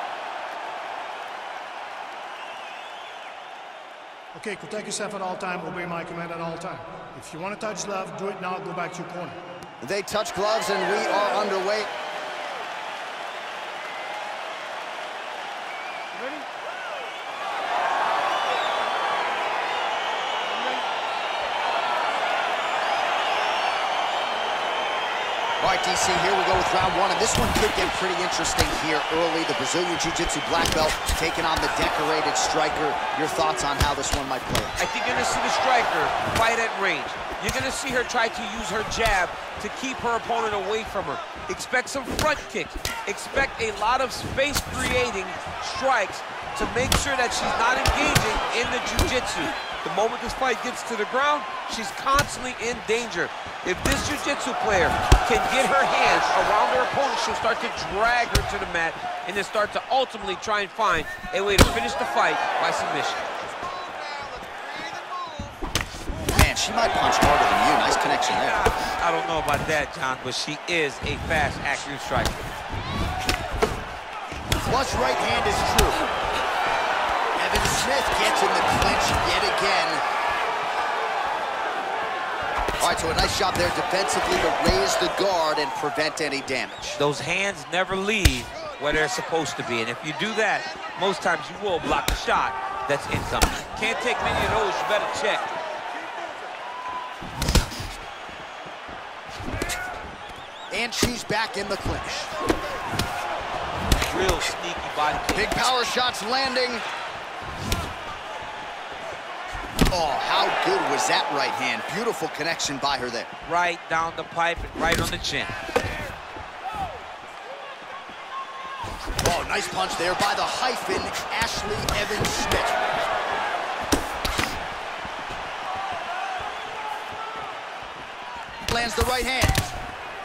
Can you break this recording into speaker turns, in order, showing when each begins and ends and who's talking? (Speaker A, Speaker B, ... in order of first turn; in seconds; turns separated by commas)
Speaker A: 4.3-9.4, Speaker B: 9.8-11.9, Speaker B: 25.6-34.8, Speaker C: 34.8-63.2, Speaker B: 66.3-68.7, Speaker C: 68.3-72.5, Speaker B: 74.7-76.0, Speaker B: 77.4-80.0, Speaker B: 82.8-87.0, Speaker C: 87.0-95.5, Speaker B: 100.7-102.3, Speaker C: 104.1-105.7, Speaker B: 105.3-106.8, Speaker B: 109.9-113.3, Speaker C: 113.5-115.6, Speaker B: 119.2-122.9, Speaker B: 128.7-129.6